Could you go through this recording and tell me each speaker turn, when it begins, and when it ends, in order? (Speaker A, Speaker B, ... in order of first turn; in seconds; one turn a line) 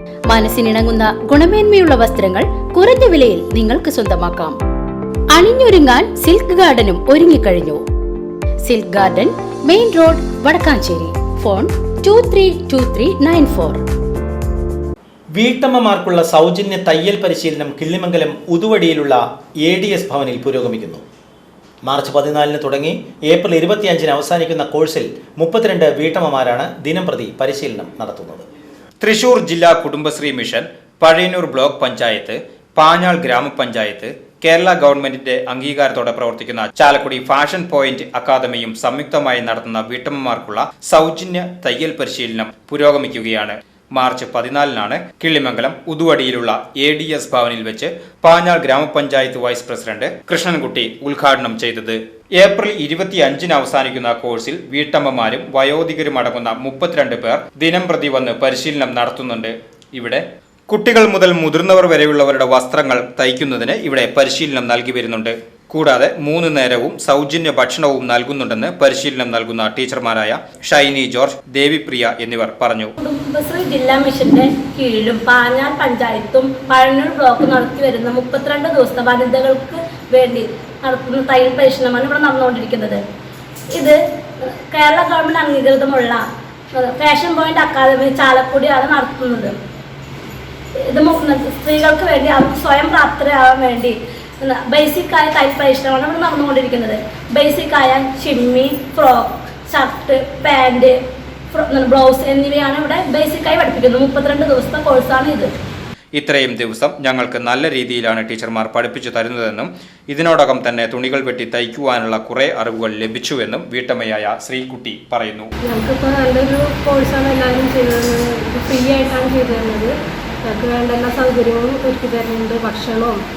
Speaker A: 0.3-4.5
Speaker A: 5.3-7.8
Speaker A: 8.6-13.8
Speaker B: 15.3-21.0
Speaker B: 21.8-28.4
Speaker C: 29.0-72.9
Speaker D: 73.0-83.0
Speaker D: 83.7-86.2
Speaker D: 86.8-89.5
Speaker D: 90.9-101.0
Speaker D: 101.5-105.5
Speaker C: 106.1-115.5
Speaker E: 115.8-119.9
Speaker E: 120.5-123.1